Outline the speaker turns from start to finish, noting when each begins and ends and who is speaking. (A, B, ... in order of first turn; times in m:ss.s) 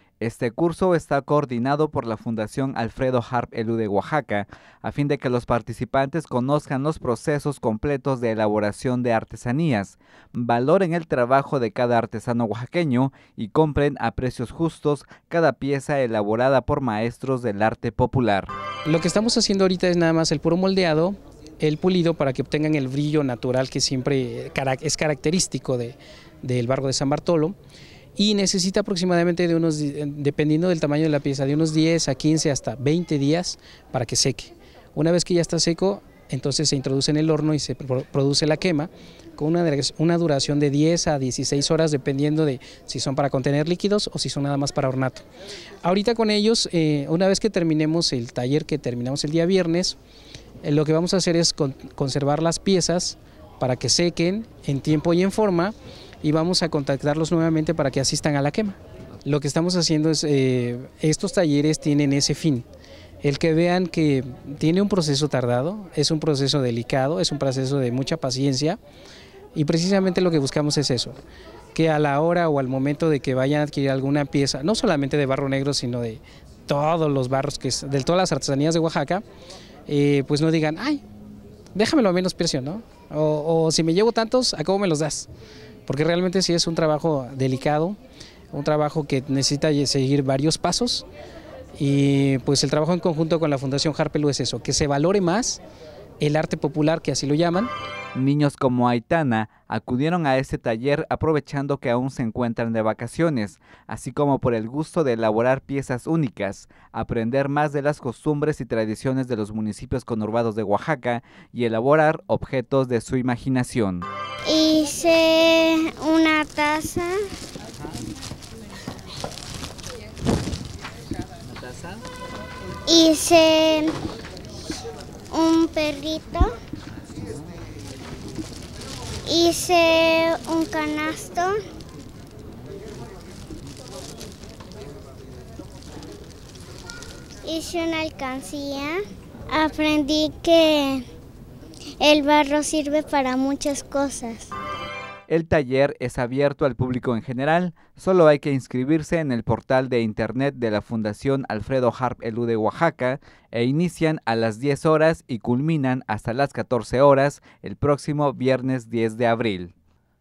0:00.2-0:18.5 A
0:18.8-0:27.6 B
0:28.2-0:45.2 B
0:45.8-0:50.0 B
0:50.6-1:02.6 B
1:03.2-1:08.8 B
1:09.6-1:11.2 B
1:11.7-1:19.2 B
1:19.9-1:21.0 B
1:21.7-1:25.3 B
1:25.9-1:28.0 B
1:28.5-1:31.1 B
1:31.8-1:35.6 B
1:36.2-1:37.7 B
1:38.1-1:54.1 A
1:54.5-1:57.2 C
2:01.5-2:02.0 A
2:02.9-2:03.9 C
2:05.3-2:06.5 C
2:09.3-2:11.5 C
2:17.4-2:19.0 C
2:19.5-2:21.0 C
2:22.0-2:24.5 C
2:25.3-2:39.7 A